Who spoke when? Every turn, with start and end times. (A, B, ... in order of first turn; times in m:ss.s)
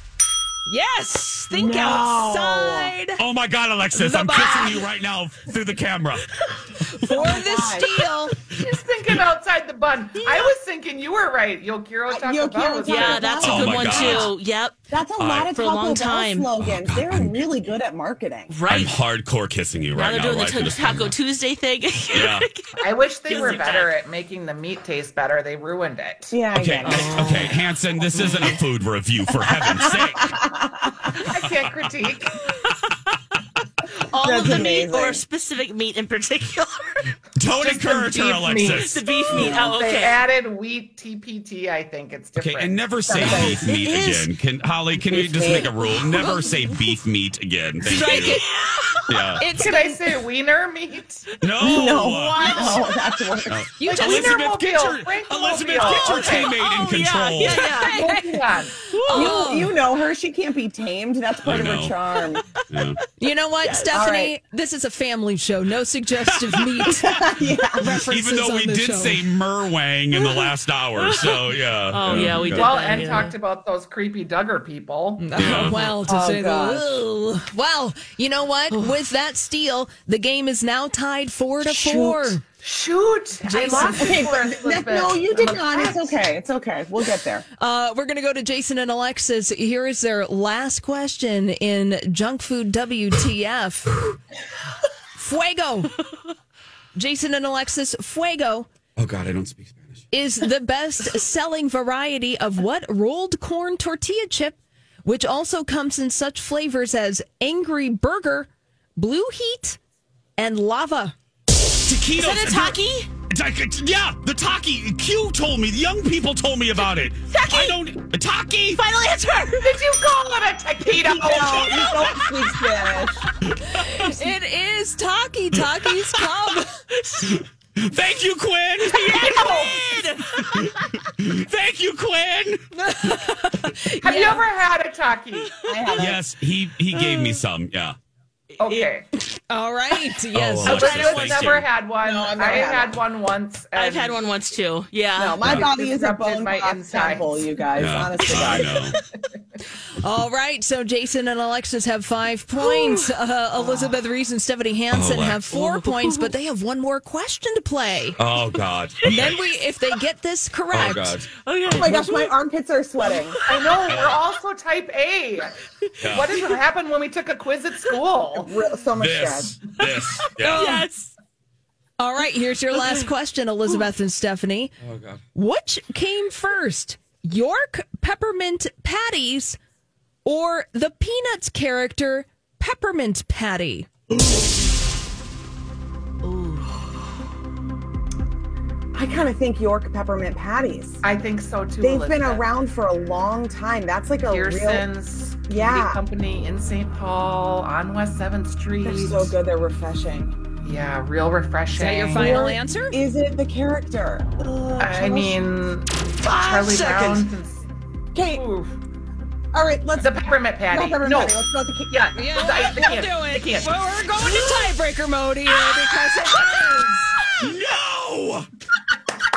0:00.6-0:03.2 A
0:01.5-0:02.9 B
0:03.2-0:06.2 C
0:03.9-0:04.8 A
0:07.0-0:08.4 A
0:07.1-0:07.9 B
0:08.6-0:13.4 D
0:10.2-0:10.5 E
0:12.1-0:14.3 B
0:12.8-0:14.7 E
0:13.3-0:14.3 C
0:14.9-0:18.5 B
0:15.2-0:15.4 C
0:15.5-0:16.5 E
0:16.6-0:17.4 C
0:18.5-0:19.0 E
0:18.7-0:21.1 C
0:19.9-0:23.9 E
0:22.1-0:22.4 C
0:22.8-0:26.3 D
0:26.3-0:27.5 B
0:26.5-0:30.3 C
0:26.8-0:27.6 E
0:29.4-0:31.1 B
0:31.2-0:32.4 D
0:34.1-0:37.1 E
0:34.1-0:35.2 B
0:37.4-0:39.5 C
0:37.5-0:42.9 D
0:38.6-0:40.2 E
0:39.3-0:39.7 B
0:42.4-0:48.4 C
0:43.0-0:43.6 B
0:43.1-0:44.3 E
0:44.9-0:45.7 B
0:46.1-0:46.6 A
0:46.2-0:46.4 E
0:47.8-0:48.4 A
0:47.9-0:49.3 E
0:49.1-0:49.4 C
0:49.4-0:50.0 A
0:49.5-0:51.3 D
0:51.4-0:52.8 C
0:51.6-0:53.6 B
0:51.6-0:52.9 E
0:53.5-0:57.8 C
0:53.8-0:54.4 A
0:53.8-0:56.6 D
0:55.9-0:56.4 A
0:56.2-0:58.1 E
0:57.4-0:59.7 A
0:57.8-0:58.7 D
0:58.9-0:59.5 E
0:59.1-1:02.4 B
1:01.4-1:02.0 C
1:02.7-1:03.0 C
1:03.2-1:09.2 A
1:03.6-1:04.0 E
1:03.9-1:04.4 B
1:06.9-1:07.8 B
1:07.9-1:12.8 C
1:10.2-1:13.3 E
1:12.4-1:15.3 D
1:15.2-1:22.4 A
1:15.3-1:15.8 C
1:16.0-1:16.9 B
1:21.6-1:22.4 B
1:22.6-1:26.2 D
1:23.4-1:24.2 A
1:23.7-1:27.4 B
1:27.6-1:34.0 A
1:35.2-1:36.0 A
1:36.9-1:38.7 A
1:39.0-1:40.0 C
1:40.1-1:49.8 A
1:50.4-1:51.1 A
1:51.8-1:58.8 C
1:52.2-1:53.1 E
1:57.3-1:57.8 E
1:58.7-1:59.7 E
1:59.6-2:02.0 D
2:01.0-2:03.2 B
2:01.9-2:02.3 C
2:03.7-2:04.3 C
2:03.8-2:06.7 A
2:07.3-2:09.8 C
2:08.8-2:11.0 E
2:09.1-2:09.8 D
2:10.3-2:12.6 C
2:12.7-2:14.4 A
2:14.0-2:15.6 D
2:15.4-2:16.0 E
2:15.6-2:16.2 B
2:16.0-2:18.0 C
2:16.9-2:17.4 E
2:18.6-2:18.9 E
2:18.6-2:19.0 D
2:19.5-2:21.1 A
2:20.3-2:21.7 C
2:20.6-2:24.3 D
2:22.0-2:23.0 B
2:23.7-2:25.6 E
2:25.2-2:28.7 B
2:25.4-2:25.7 C
2:25.6-2:27.4 D
2:27.7-2:29.0 C
2:30.0-2:38.2 A
2:32.6-2:33.1 E
2:34.9-2:35.4 C
2:35.5-2:36.3 E
2:38.2-2:39.4 C
2:39.0-2:39.3 E
2:39.1-2:41.2 A
2:40.7-2:41.3 C
2:41.4-2:42.4 E
2:41.7-2:43.4 B
2:43.0-2:43.7 E
2:43.5-2:48.5 D
2:43.8-2:44.2 C
2:46.2-2:46.6 E
2:48.3-2:49.6 B
2:49.0-2:50.7 C
2:49.8-2:51.1 E
2:50.4-2:50.9 A
2:52.0-2:54.7 A
2:54.8-2:55.2 C
2:55.3-2:59.6 A
3:00.2-3:03.9 A
3:06.2-3:06.8 E
3:08.9-3:11.0 B
3:11.0-3:12.5 D
3:11.8-3:14.9 B
3:14.3-3:19.3 D
3:15.5-3:16.0 B
3:18.8-3:20.3 B
3:20.6-3:22.4 D
3:21.8-3:23.0 A
3:22.1-3:25.4 B
3:24.8-3:27.6 D
3:26.2-3:27.3 A
3:28.1-3:28.4 B
3:28.3-3:28.7 D
3:29.5-3:30.1 B
3:30.0-3:34.6 D
3:30.7-3:32.0 B
3:32.2-3:37.1 A
3:37.4-3:38.5 C